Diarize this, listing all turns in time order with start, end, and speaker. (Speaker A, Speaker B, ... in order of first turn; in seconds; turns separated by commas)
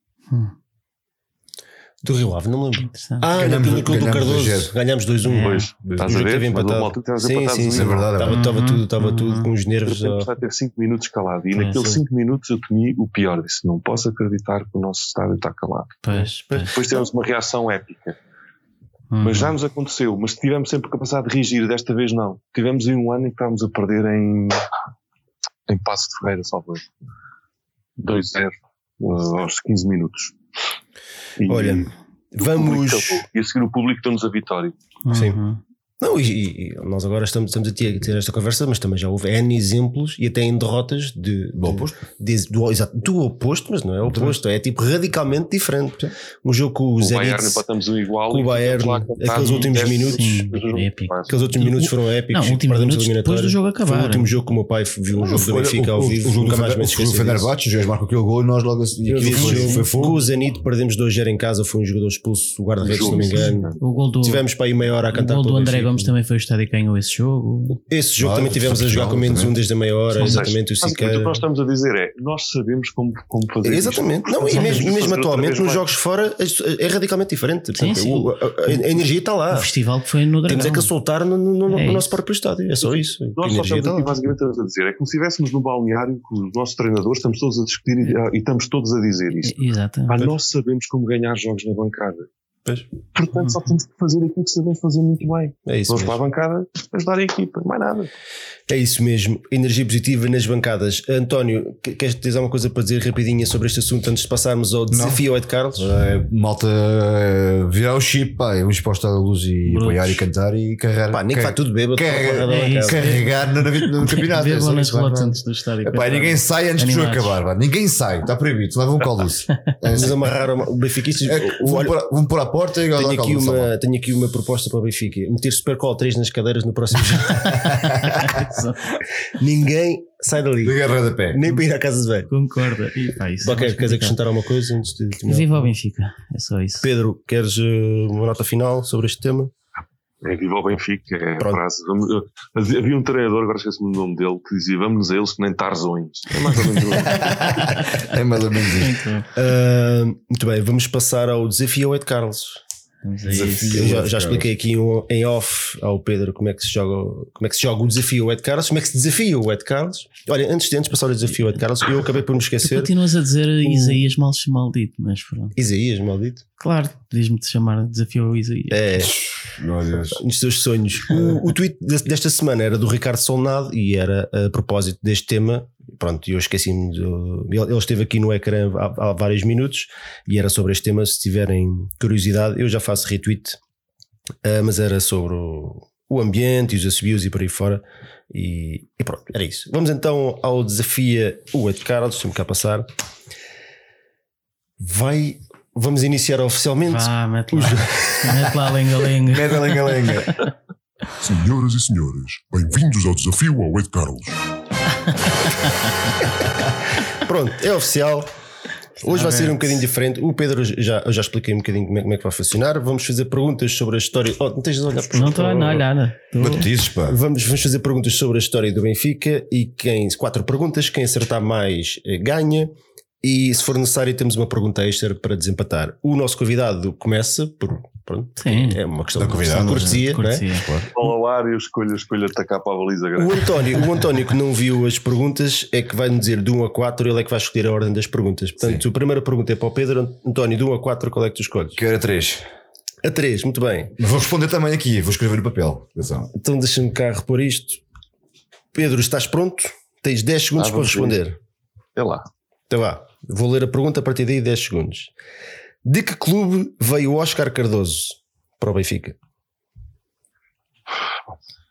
Speaker A: 2.0-10.2, Speaker B: 2.8-3.3, Speaker C: 3.3-4.7, Speaker B: 5.2-5.7, Speaker D: 5.4-8.1, Speaker C: 5.8-6.1, Speaker C: 7.7-8.4, Speaker B: 8.3-9.5, Speaker D: 9.8-16.0, Speaker B: 11.5-12.0, Speaker B: 16.0-16.8, Speaker A: 16.1-17.0, Speaker D: 16.7-18.1, Speaker B: 19.1-19.5, Speaker D: 19.2-24.6, Speaker D: 25.7-26.9, Speaker D: 28.0-30.4, Speaker D: 31.4-34.7, Speaker A: 31.5-33.2, Speaker B: 35.0-35.6, Speaker A: 35.1-35.4, Speaker A: 36.0-47.6, Speaker C: 41.5-42.0, Speaker C: 44.0-44.4, Speaker D: 47.0-51.5, Speaker A: 48.3-50.4, Speaker B: 49.3-54.3, Speaker A: 51.3-57.5, Speaker C: 55.1-60.2, Speaker A: 59.0-66.1, Speaker B: 59.3-60.1, Speaker D: 62.8-63.8, Speaker B: 63.3-64.5, Speaker B: 65.1-67.8, Speaker A: 67.8-71.4, Speaker C: 68.2-69.6, Speaker B: 70.1-70.4, Speaker D: 70.2-75.8, Speaker A: 73.6-79.7, Speaker B: 74.5-74.8, Speaker B: 77.7-78.8, Speaker B: 79.5-80.9, Speaker A: 80.5-84.1, Speaker B: 81.7-82.1, Speaker D: 83.3-89.6, Speaker B: 89.4-90.3, Speaker D: 90.1-92.3, Speaker D: 93.1-98.1, Speaker A: 95.7-96.2, Speaker A: 98.7-105.9, Speaker C: 104.9-105.2, Speaker C: 105.8-120.3, Speaker B: 109.7-110.2, Speaker A: 111.1-113.2, Speaker B: 112.5-117.4, Speaker A: 119.9-121.9, Speaker C: 121.2-123.7, Speaker A: 122.9-128.3, Speaker B: 127.3-128.8, Speaker A: 129.3-130.8, Speaker C: 130.6-131.5, Speaker A: 131.3-132.3, Speaker B: 132.3-134.2, Speaker A: 133.4-135.6, Speaker B: 135.2-136.9, Speaker A: 136.8-139.5, Speaker D: 140.2-147.4, Speaker C: 146.9-149.0, Speaker B: 148.8-149.3, Speaker A: 149.3-152.6, Speaker B: 153.0-153.9, Speaker C: 153.2-154.5, Speaker A: 153.7-162.9, Speaker B: 162.6-165.5, Speaker A: 163.6-164.0, Speaker A: 165.6-166.4, Speaker B: 166.6-168.8, Speaker A: 168.7-169.2, Speaker C: 168.9-170.2, Speaker A: 170.1-183.6, Speaker A: 184.4-192.9, Speaker A: 194.8-198.5, Speaker B: 196.9-200.3, Speaker C: 199.2-200.4, Speaker E: 201.2-204.4, Speaker A: 207.2-208.3, Speaker A: 209.0-215.9, Speaker B: 209.0-209.6, Speaker B: 215.1-216.7, Speaker C: 216.3-217.2, Speaker A: 217.1-222.7, Speaker A: 223.2-230.4, Speaker B: 228.4-228.8, Speaker C: 229.1-230.9, Speaker B: 229.4-230.7, Speaker D: 230.9-233.5, Speaker A: 233.2-241.8, Speaker C: 238.6-238.8, Speaker C: 241.7-242.4, Speaker A: 243.0-243.9, Speaker C: 244.0-246.3, Speaker A: 246.3-247.8, Speaker A: 248.7-251.4, Speaker D: 250.6-251.2, Speaker D: 251.9-252.3, Speaker A: 252.7-255.1, Speaker A: 255.8-259.2